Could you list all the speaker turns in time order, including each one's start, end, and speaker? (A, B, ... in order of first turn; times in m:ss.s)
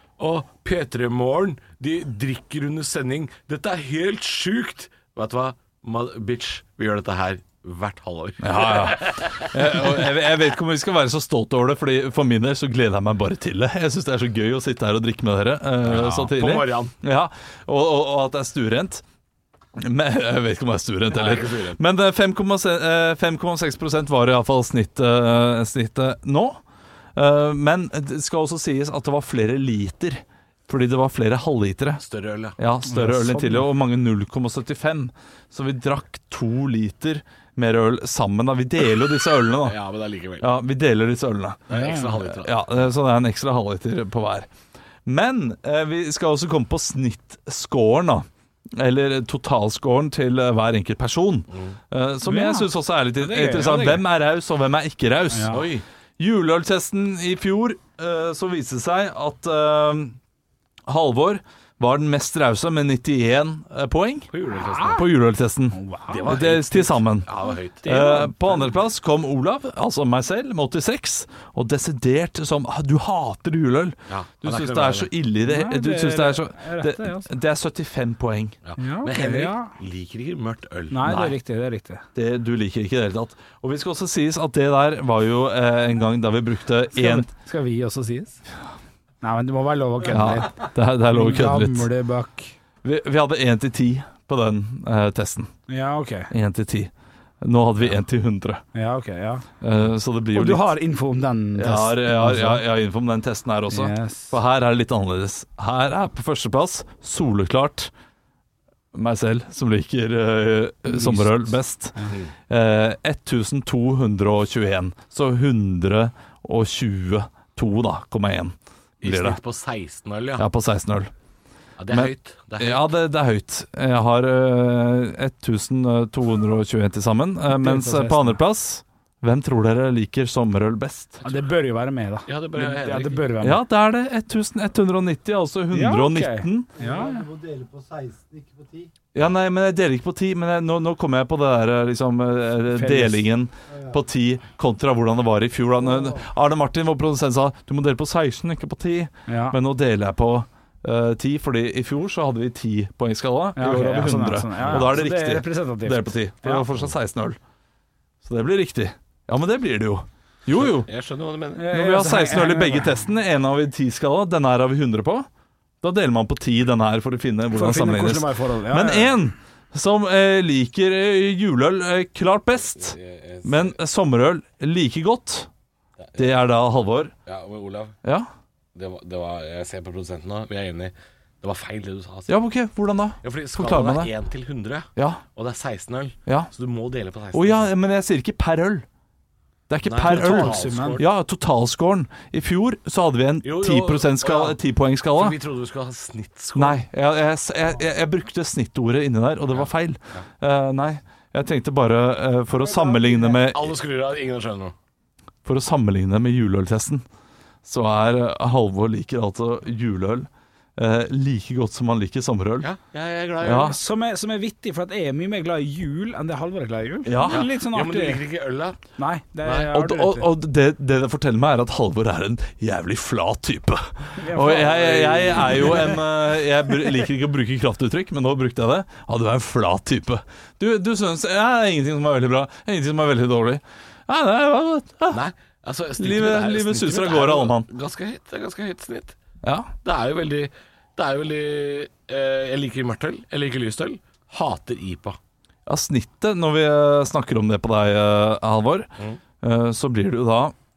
0:00.2-0:10.0 A
0:08.4-0:19.0 B
0:15.8-0:16.9 A
0:19.8-0:26.6 B
0:21.1-0:21.8 A
0:27.2-0:32.0 B
0:32.0-0:32.6 A
0:32.6-0:39.8 B
0:32.8-0:33.7 C
0:39.6-0:40.5 A
0:40.4-0:41.6 B
0:41.7-0:42.2 C
0:41.7-0:42.8 A
0:42.3-0:44.5 B
0:45.1-0:55.7 B
0:52.2-0:54.0 C
0:55.3-0:55.6 C
0:55.5-0:55.8 A
0:56.2-1:00.2 B
1:00.9-1:04.3 B
1:04.3-1:05.0 A
1:04.9-1:07.3 B
1:05.7-1:06.4 C
1:06.1-1:08.6 A
1:07.8-1:18.6 B
1:14.1-1:15.1 A
1:15.4-1:17.3 C
1:18.6-1:21.1 A
1:18.8-1:19.7 C
1:20.9-1:22.0 C
1:21.1-1:21.4 B
1:22.2-1:27.3 B
1:26.9-1:28.4 C
1:29.2-1:32.5 C
1:30.1-1:31.9 B
1:32.8-1:35.5 B
1:35.7-1:36.3 C
1:36.3-1:36.9 B
1:37.4-1:38.6 B
1:38.8-1:39.4 C
1:39.6-1:40.7 B
1:40.3-1:42.6 C
1:41.6-1:47.9 B
1:43.7-1:44.4 C
1:48.9-1:59.4 B
1:50.9-1:52.1 C
1:59.0-2:00.4 A
2:00.4-2:01.1 B
2:01.8-2:02.8 A
2:01.9-2:11.2 B
2:07.5-2:08.4 C
2:11.2-2:13.6 C
2:12.3-2:13.3 A
2:13.4-2:16.7 B
2:15.7-2:17.3 C
2:16.8-2:18.9 D
2:19.1-2:37.4 B
2:22.7-2:23.2 C
2:23.7-2:24.0 D
2:29.3-2:29.6 C
2:33.6-2:36.7 C
2:34.6-2:34.9 A
2:38.2-2:40.9 B
2:40.5-2:41.7 A
2:41.6-2:43.0 C
2:41.7-2:45.3 B
2:45.8-2:55.5 B
2:47.5-2:49.2 C
2:52.8-2:53.8 A
2:56.0-2:56.3 A
2:56.2-2:57.1 B
2:57.3-2:58.0 A
2:58.8-3:02.3 A
3:02.3-3:04.1 B
3:03.2-3:07.7 A
3:05.0-3:05.2 B
3:06.3-3:06.5 B
3:07.3-3:08.8 B
3:09.7-3:15.4 B
3:09.8-3:11.1 A
3:10.0-3:11.0 C
3:13.4-3:14.6 A
3:15.1-3:16.8 A
3:16.6-3:23.7 B
3:19.5-3:20.2 A
3:22.6-3:23.4 C
3:23.2-3:24.7 A
3:25.4-3:27.0 B
3:27.6-3:32.7 B
3:32.6-3:33.8 A
3:33.4-3:33.8 B
3:33.4-3:38.2 C
3:37.1-3:37.5 B
3:37.3-3:38.8 A
3:39.0-3:40.3 C
3:39.7-3:55.2 B
3:44.2-3:46.0 C
3:45.2-3:45.8 A
3:55.1-3:59.2 A
3:56.0-3:57.7 B
3:59.4-3:59.7 B
3:59.8-4:05.2 A
4:05.7-4:08.9 B
4:09.4-4:10.5 B